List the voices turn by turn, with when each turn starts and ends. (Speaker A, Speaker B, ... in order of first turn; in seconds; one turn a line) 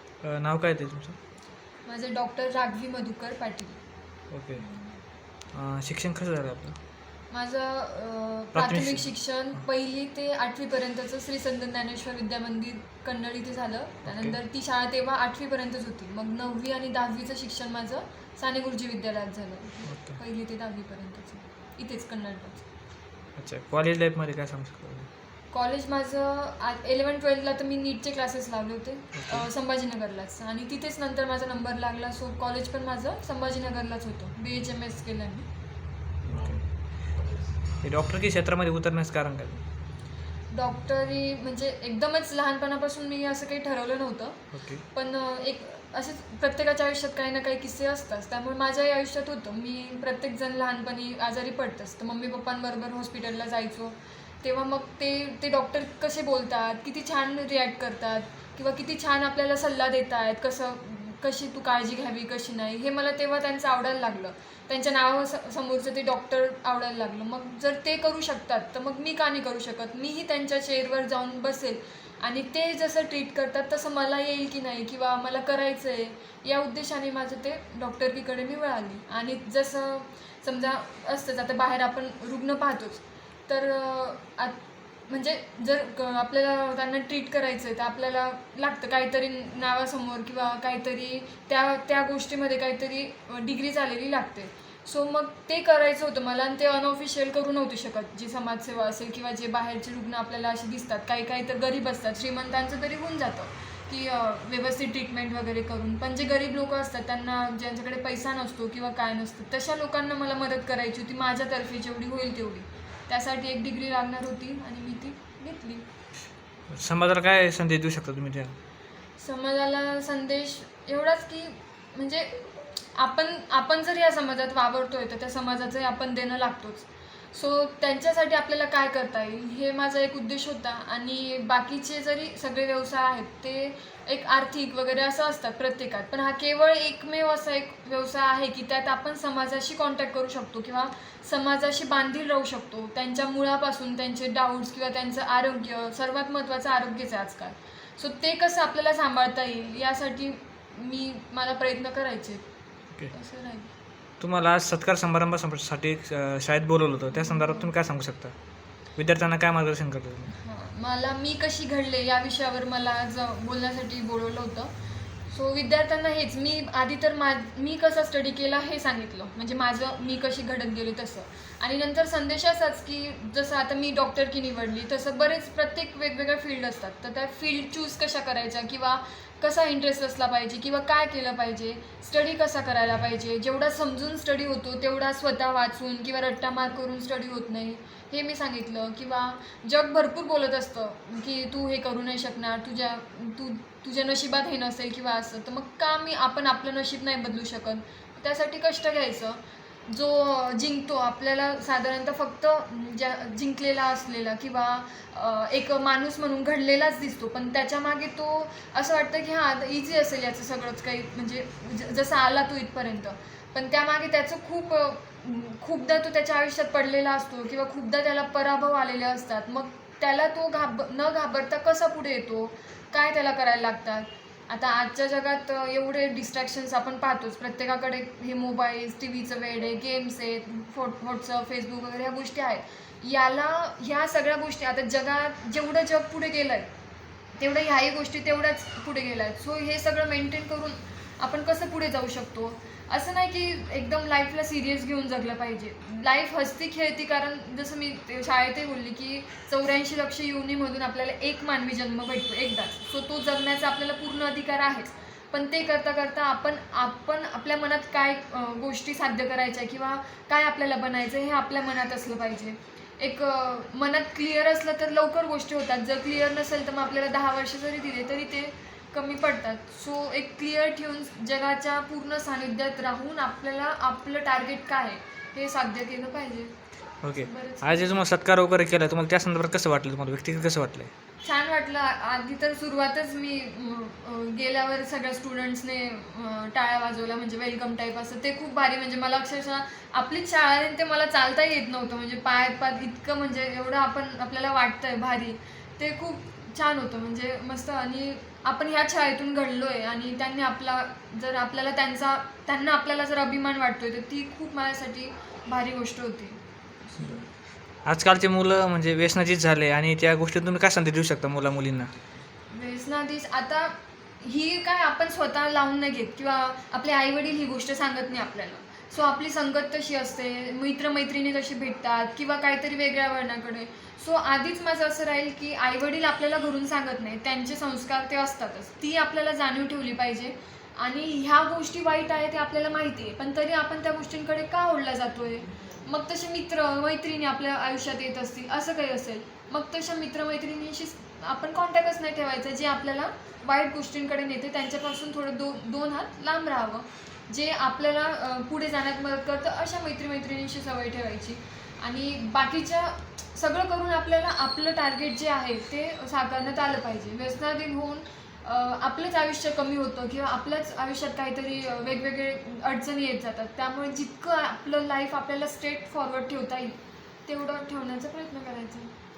Speaker A: 0.2-1.2
Speaker B: 1.9-3.8
Speaker A: 4.3-4.6
Speaker B: 4.6-5.0
Speaker A: 5.5-6.8
Speaker B: 7.3-22.7
Speaker A: 8.5-9.1
Speaker A: 14.1-14.4
Speaker A: 19.9-20.2
Speaker A: 23.4-25.1
Speaker B: 25.5-35.5
Speaker A: 29.1-29.5
Speaker A: 36.2-36.6
Speaker A: 37.8-39.6
Speaker B: 40.5-115.9
Speaker A: 44.5-44.8
Speaker A: 116.7-118.5
Speaker B: 119.2-122.4
Speaker B: 122.9-152.4
Speaker B: 153.1-153.7
Speaker A: 154.2-158.3
Speaker B: 157.1-157.7
Speaker A: 158.9-160.3
Speaker B: 160.3-164.7
Speaker B: 165.3-236.7
Speaker B: 237.4-276.5
Speaker A: 277.0-280.9
Speaker B: 277.2-278.0
Speaker B: 281.2-307.3
Speaker A: 307.0-307.3
Speaker A: 307.8-311.9
Speaker B: 312.5-368.9